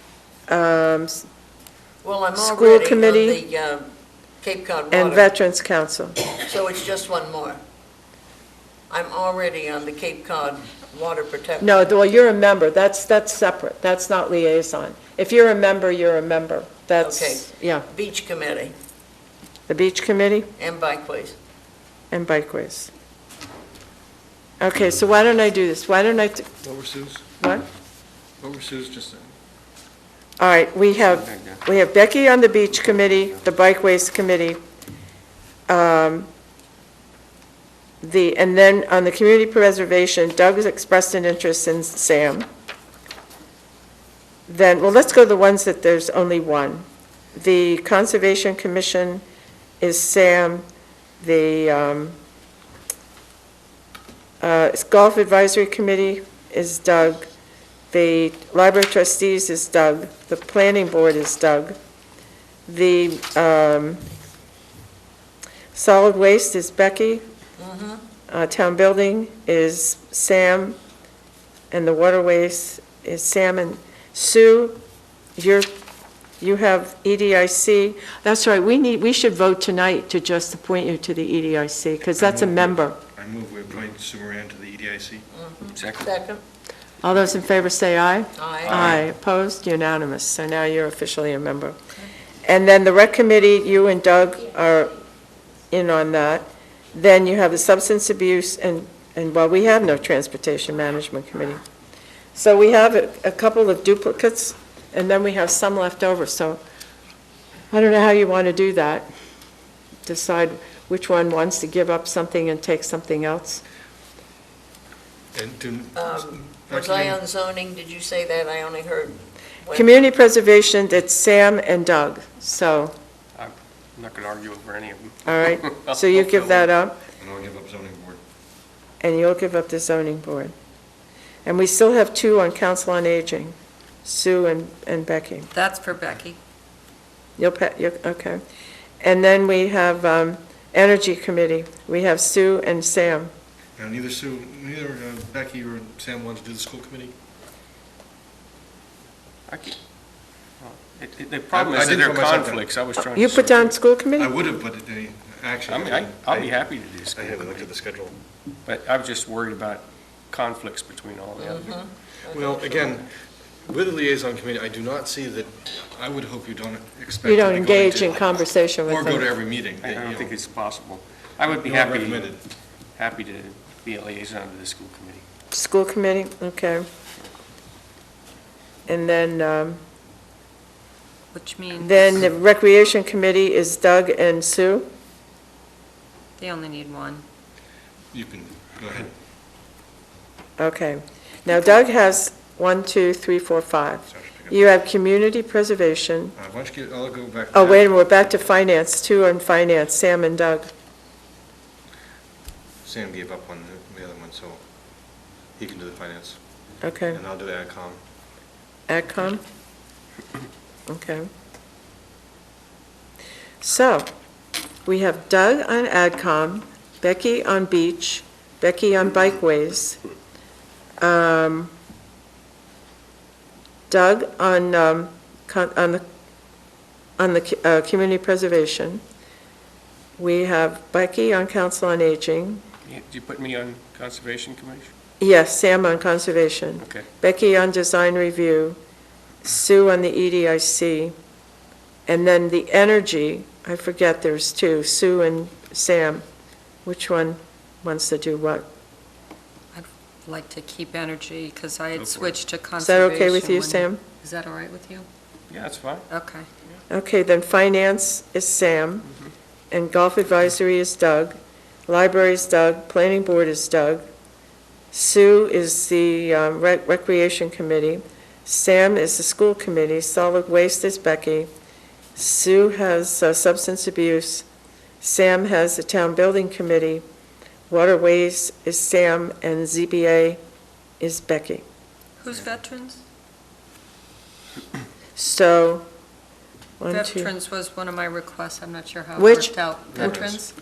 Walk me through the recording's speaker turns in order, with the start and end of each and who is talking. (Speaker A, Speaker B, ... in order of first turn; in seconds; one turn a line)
Speaker A: 0.5-1.3
Speaker B: 2.0-3.9
Speaker A: 2.4-3.4
Speaker B: 4.4-5.3
Speaker A: 4.9-6.2
Speaker B: 6.4-7.6
Speaker B: 8.9-11.9
Speaker A: 11.6-17.9
Speaker B: 17.0-18.8
Speaker A: 19.7-20.5
Speaker B: 20.6-21.4
Speaker A: 22.1-22.9
Speaker A: 24.6-26.5
Speaker C: 26.6-27.3
Speaker A: 27.4-27.6
Speaker C: 28.4-29.3
Speaker A: 30.4-34.6
Speaker D: 31.3-31.6
Speaker A: 35.7-36.3
Speaker A: 38.0-42.5
Speaker A: 44.5-49.2
Speaker A: 49.8-50.6
Speaker A: 51.2-52.2
Speaker A: 54.4-57.3
Speaker A: 57.9-61.8
Speaker A: 62.7-64.0
Speaker A: 65.7-67.2
Speaker B: 67.6-68.0
Speaker A: 68.3-70.8
Speaker A: 71.7-74.8
Speaker A: 75.4-75.7
Speaker A: 76.4-83.0
Speaker C: 82.2-85.3
Speaker B: 85.3-86.4
Speaker D: 85.7-86.0
Speaker A: 87.0-91.8
Speaker B: 88.4-88.8
Speaker C: 88.7-89.0
Speaker A: 92.5-95.0
Speaker A: 95.7-101.6
Speaker A: 102.3-106.6
Speaker A: 107.7-109.1
Speaker A: 110.1-113.6
Speaker C: 115.3-117.2
Speaker B: 116.0-120.0
Speaker A: 119.7-123.0
Speaker D: 123.4-126.6
Speaker A: 125.2-127.0
Speaker C: 127.2-128.2
Speaker A: 129.0-130.5
Speaker A: 131.5-135.5
Speaker E: 135.5-136.4
Speaker A: 137.4-138.4
Speaker A: 139.0-143.3
Speaker C: 143.8-147.1
Speaker D: 149.5-149.8
Speaker D: 150.6-153.7
Speaker C: 151.5-152.7
Speaker A: 153.1-154.3
Speaker C: 154.2-156.6
Speaker D: 155.7-157.7
Speaker C: 157.1-158.2
Speaker D: 158.7-161.8
Speaker B: 161.4-163.0
Speaker C: 162.3-163.1
Speaker C: 163.7-170.3
Speaker A: 167.2-169.3
Speaker D: 169.8-172.3
Speaker C: 171.5-172.4
Speaker D: 173.0-175.2
Speaker A: 175.5-176.8
Speaker A: 178.9-179.8
Speaker E: 181.3-182.3
Speaker A: 181.8-184.9
Speaker E: 186.4-187.2
Speaker C: 188.1-189.1
Speaker A: 190.6-196.3
Speaker C: 194.1-194.6
Speaker C: 196.4-198.2
Speaker A: 197.5-200.7
Speaker C: 202.8-204.6
Speaker C: 205.6-206.4
Speaker A: 206.8-207.2
Speaker C: 207.1-208.0
Speaker A: 208.9-209.4
Speaker A: 210.9-211.3
Speaker A: 213.6-214.1
Speaker A: 214.8-220.0
Speaker A: 221.0-221.7
Speaker A: 223.9-226.0
Speaker A: 227.2-229.0
Speaker A: 230.2-232.6
Speaker D: 232.9-234.9
Speaker A: 235.2-238.8
Speaker D: 236.8-237.1
Speaker A: 239.4-241.2
Speaker A: 242.1-246.2
Speaker A: 246.8-248.7
Speaker E: 249.7-255.1
Speaker D: 251.9-252.4
Speaker A: 252.8-254.0
Speaker D: 255.5-256.0
Speaker E: 256.1-256.5
Speaker A: 256.9-259.1
Speaker A: 259.7-264.1
Speaker A: 264.9-271.5
Speaker A: 272.1-274.5
Speaker A: 275.0-277.0
Speaker A: 277.7-280.4
Speaker A: 281.0-281.6
Speaker E: 282.2-283.0
Speaker A: 285.2-285.9
Speaker A: 286.8-287.3
Speaker E: 286.9-290.5
Speaker A: 289.2-289.5
Speaker C: 290.0-290.3